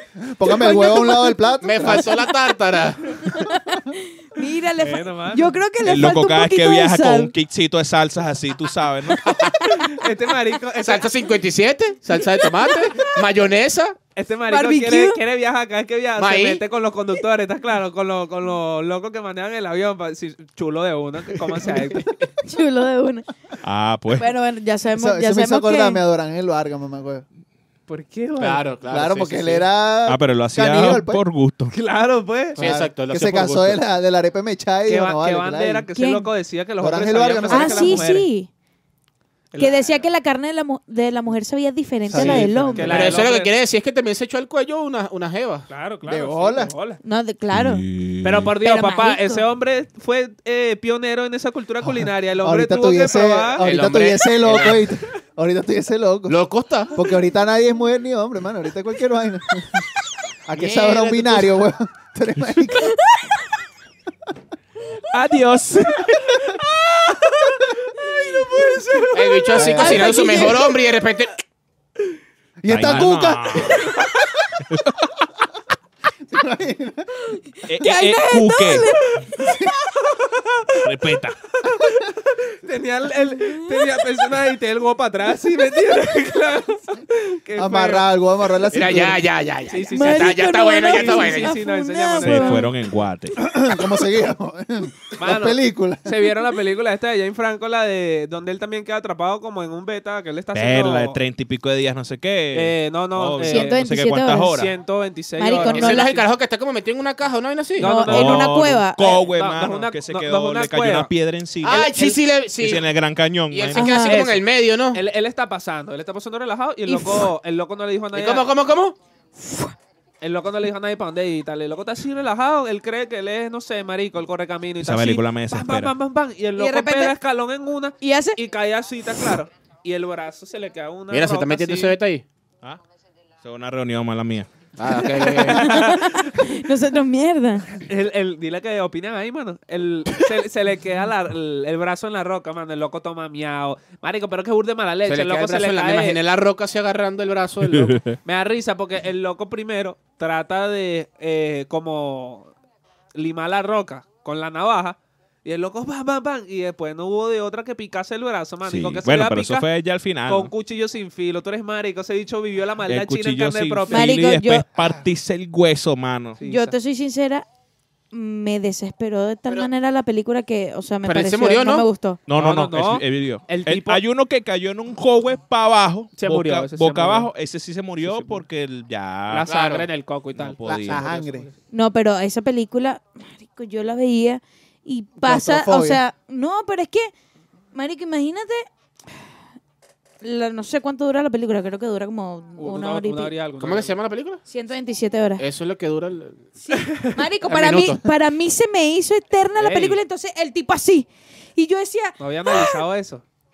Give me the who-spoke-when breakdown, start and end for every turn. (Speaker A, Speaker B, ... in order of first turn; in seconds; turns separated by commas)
Speaker A: 0.2-2.1, Speaker B: 0.4-1.9, Speaker C: 1.6-3.2, Speaker B: 3.3-7.3, Speaker D: 4.8-5.6, Speaker E: 5.8-9.3, Speaker C: 9.2-9.6, Speaker D: 9.6-11.1, Speaker C: 10.8-14.0, Speaker D: 14.2-22.1, Speaker B: 14.5-15.2, Speaker C: 16.2-16.6, Speaker B: 22.4-23.3, Speaker E: 23.6-24.3, Speaker B: 24.2-26.0, Speaker A: 25.0-27.2, Speaker D: 27.9-28.6, Speaker C: 28.4-29.7, Speaker A: 28.9-31.2, Speaker E: 30.1-31.8, Speaker D: 31.7-32.6, Speaker C: 32.6-33.8, Speaker A: 32.6-35.9, Speaker D: 34.9-38.3, Speaker B: 36.0-36.3, Speaker A: 36.8-38.1, Speaker B: 37.5-38.5, Speaker D: 39.5-40.0, Speaker B: 39.6-43.1, Speaker A: 42.1-43.2, Speaker C: 42.1-45.7, Speaker D: 42.2-43.5, Speaker D: 45.7-47.0, Speaker A: 46.1-46.7, Speaker B: 47.0-47.8, Speaker E: 47.5-48.5, Speaker D: 48.2-53.6, Speaker B: 48.6-49.4, Speaker A: 52.0-56.4, Speaker C: 53.6-54.9, Speaker C: 56.3-56.9, Speaker A: 56.9-59.9, Speaker A: 60.5-63.0, Speaker C: 60.5-61.5, Speaker D: 65.1-67.4, Speaker B: 68.0-69.1, Speaker D: 68.8-69.1, Speaker C: 69.1-71.3, Speaker A: 69.5-70.1, Speaker B: 69.8-70.7, Speaker A: 72.6-73.8, Speaker E: 72.7-73.9, Speaker E: 74.7-75.2, Speaker A: 76.3-77.3, Speaker E: 77.7-78.9, Speaker B: 77.8-79.6, Speaker A: 79.4-79.7, Speaker D: 80.1-80.8, Speaker E: 80.8-81.4, Speaker D: 81.6-88.1, Speaker A: 87.6-89.2, Speaker C: 88.7-91.6, Speaker D: 89.7-92.7, Speaker B: 89.9-92.7, Speaker E: 92.2-93.4, Speaker A: 93.4-96.1, Speaker D: 95.2-101.2, Speaker E: 100.5-104.7, Speaker D: 102.5-103.8, Speaker B: 103.5-104.5, Speaker D: 104.5-106.2, Speaker B: 105.4-106.2, Speaker C: 105.5-108.0, Speaker B: 107.8-109.2, Speaker D: 107.8-111.1, Speaker E: 108.0-114.0, Speaker C: 111.6-112.8, Speaker C: 113.5-115.0, Speaker B: 113.8-114.3, Speaker D: 114.0-118.5, Speaker B: 116.9-117.3, Speaker C: 118.1-119.0, Speaker B: 119.4-119.7, Speaker D: 120.2-132.0, Speaker E: 124.8-125.9, Speaker B: 126.6-127.2, Speaker B: 128.0-128.4, Speaker C: 131.1-132.2, Speaker E: 133.4-134.5, Speaker C: 134.8-135.6, Speaker B: 135.2-137.8, Speaker D: 135.3-136.4, Speaker D: 137.8-146.2, Speaker C: 145.1-148.0, Speaker E: 147.7-148.2, Speaker D: 148.2-152.5, Speaker D: 153.2-159.7, Speaker E: 158.6-160.5, Speaker D: 160.3-164.2, Speaker E: 162.9-166.4, Speaker B: 163.9-164.7, Speaker D: 166.4-166.8, Speaker B: 166.4-167.5, Speaker B: 168.1-172.2, Speaker C: 171.0-171.9, Speaker E: 172.3-179.5, Speaker D: 172.3-174.0, Speaker D: 176.2-177.3, Speaker D: 178.0-178.4, Speaker D: 179.3-181.6, Speaker C: 179.5-179.9, Speaker E: 180.4-181.1, Speaker A: 180.7-181.5, Speaker B: 181.7-187.1, Speaker A: 185.2-186.0, Speaker B: 187.7-188.7, Speaker B: 190.2-193.3, Speaker D: 192.6-193.9, Speaker C: 193.6-194.4, Speaker B: 194.5-195.4, Speaker C: 195.4-196.6, Speaker B: 196.7-202.8, Speaker C: 197.4-198.0, Speaker D: 199.5-200.0, Speaker D: 202.2-203.2